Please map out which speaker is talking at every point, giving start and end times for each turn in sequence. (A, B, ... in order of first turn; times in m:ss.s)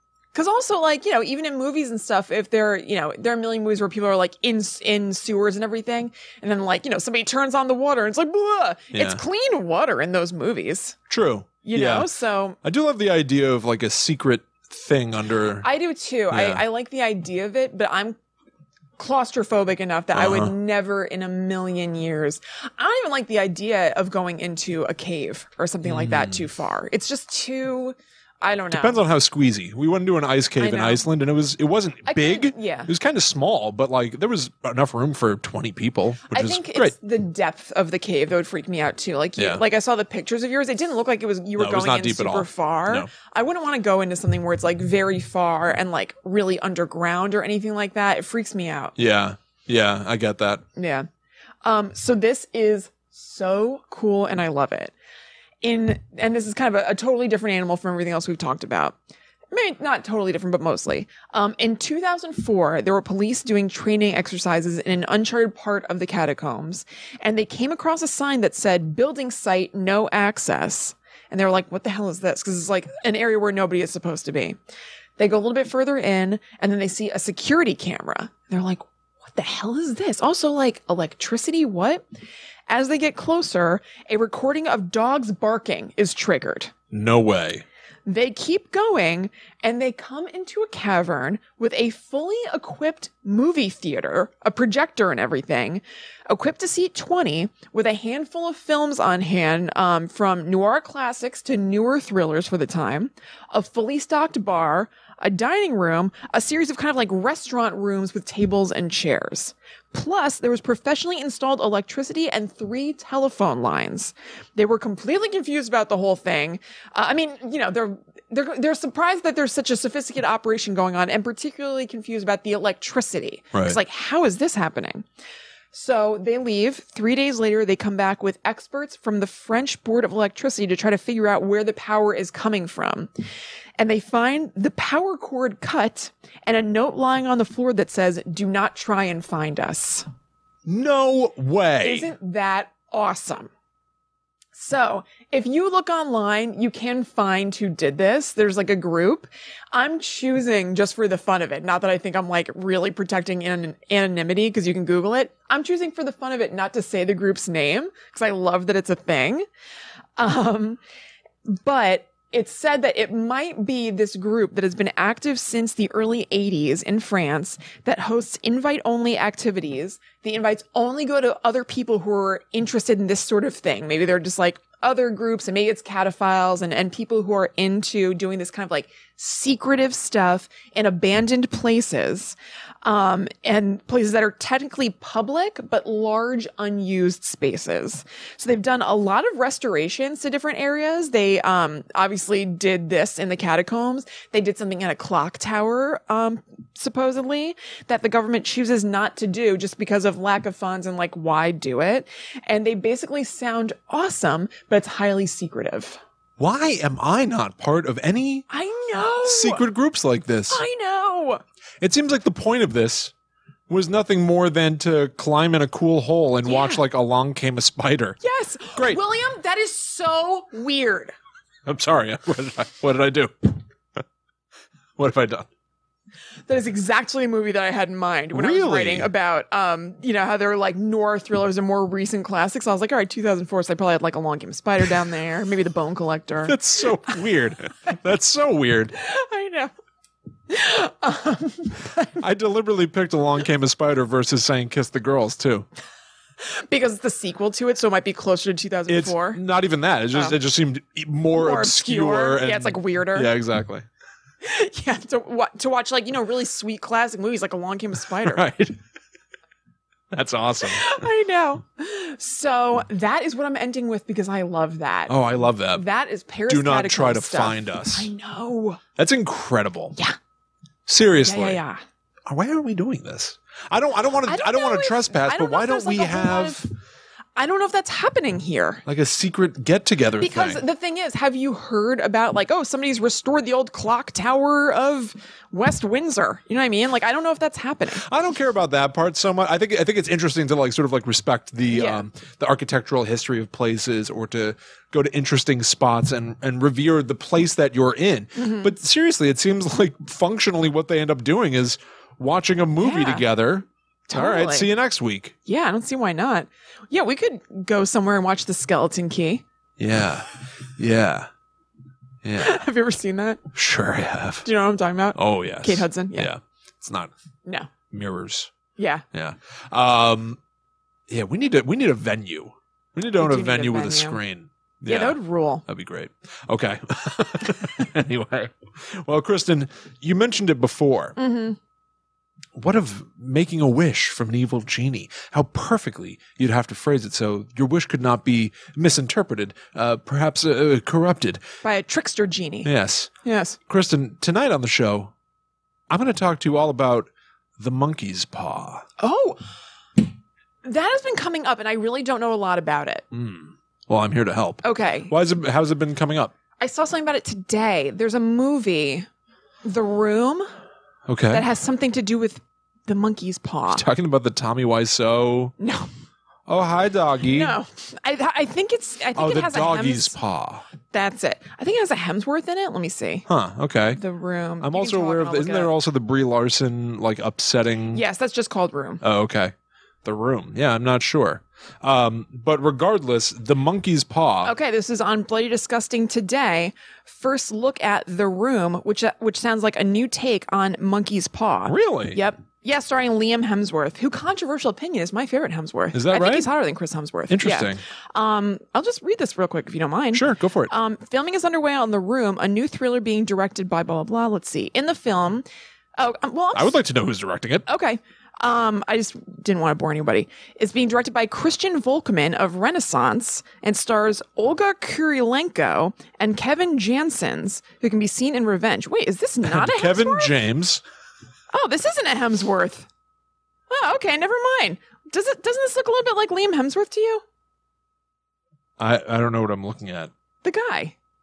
0:00.3-0:11.0 A
0:08.9-0:09.2 B
0:11.1-0:12.1 B
0:11.6-0:12.6 A
0:12.6-0:15.6 B
0:15.6-0:18.2 A
0:16.3-0:16.6 B
0:19.0-0:29.0 A
0:20.1-0:20.5 B
0:25.8-0:26.4 B
0:28.7-0:36.9 B
0:30.6-0:31.0 A
0:32.0-0:32.9 A
0:36.3-0:49.0 A
0:39.4-0:39.6 B
0:41.6-0:43.1 B
0:49.0-0:50.6 B
0:50.8-0:51.1 A
0:51.6-0:54.9 A
0:55.6-0:59.0 A
0:59.5-1:14.6 A
1:15.2-1:22.0 A
1:22.7-1:26.7 A
1:26.9-1:27.6 B
1:28.0-2:05.0 A
2:05.7-2:13.1 A
2:13.8-2:20.0 A
2:20.6-2:22.1 B
2:21.8-2:23.5 A
2:24.5-2:39.4 A
2:40.2-2:40.8 A
2:41.5-3:26.0 A
3:26.4-3:28.4 B
3:28.5-3:29.6 A
3:29.2-3:30.6 B
3:30.5-3:31.4 A
3:31.8-3:33.1 B
3:33.7-3:38.2 B
3:36.4-3:36.8 A
3:38.2-3:41.1 A
3:38.7-3:39.0 B
3:41.6-3:44.0 B
3:45.0-3:45.5 B
3:46.5-3:57.2 A
3:48.3-3:49.1 B
3:56.4-3:58.9 B
3:58.9-3:59.7 A
4:00.5-4:02.2 A
4:02.2-4:05.6 B
4:06.4-4:09.4 A
4:08.9-4:13.8 B
4:11.3-4:13.3 A
4:14.4-4:18.4 A
4:18.2-4:18.8 B
4:20.1-4:21.0 B
4:20.6-4:28.8 A
4:25.1-4:25.8 B
4:26.5-4:28.1 B
4:29.0-4:30.0 B
4:30.9-4:31.6 B
4:31.2-4:31.8 A
4:32.3-4:36.6 B
4:34.2-4:36.7 A
4:37.4-4:38.8 A
4:38.8-4:40.6 B
4:40.2-4:48.1 A
4:47.9-5:05.3 B
4:51.7-4:52.0 A
4:58.4-4:58.7 A
5:02.8-5:03.2 A
5:04.1-5:04.7 A
5:05.4-5:09.4 A
5:09.8-5:10.2 B
5:10.8-5:11.3 B
5:12.2-5:12.6 B
5:12.4-5:13.4 A
5:13.5-5:14.5 B
5:14.4-5:16.3 A
5:15.1-5:17.1 B
5:17.9-5:18.5 B
5:18.8-5:19.0 A
5:19.1-5:20.4 B
5:21.1-5:31.1 B
5:23.2-5:24.2 A
5:24.8-5:25.6 A
5:31.2-5:31.6 A
5:32.5-5:41.4 B
5:41.6-5:42.7 A
5:42.6-5:43.1 B
5:43.2-5:43.6 A
5:43.7-5:45.1 B
5:45.9-5:48.8 B
5:49.0-5:49.4 A
5:50.6-5:53.0 A
5:53.1-5:56.3 B
5:54.6-5:55.1 A
5:56.6-5:59.1 A
5:59.6-6:00.4 A
6:01.1-6:01.4 B
6:01.3-6:03.8 A
6:03.7-6:05.5 B
6:05.6-6:05.9 A
6:06.5-6:07.5 B
6:07.3-6:10.2 A
6:09.1-6:10.6 B
6:10.9-6:13.2 A
6:13.3-6:14.0 B
6:14.0-6:15.7 A
6:14.6-6:18.0 B
6:17.9-6:19.0 A
6:19.0-6:19.5 B
6:20.0-6:24.5 B
6:24.4-6:45.4 A
6:31.7-6:32.2 B
6:35.9-6:36.5 B
6:37.3-6:37.8 B
6:40.1-6:40.7 B
6:46.0-6:46.8 A
6:46.5-6:47.6 B
6:47.6-7:00.3 A
6:59.4-7:00.8 B
7:01.5-7:02.9 A
7:03.7-7:07.2 A
7:08.8-7:10.1 B
7:10.4-7:10.9 A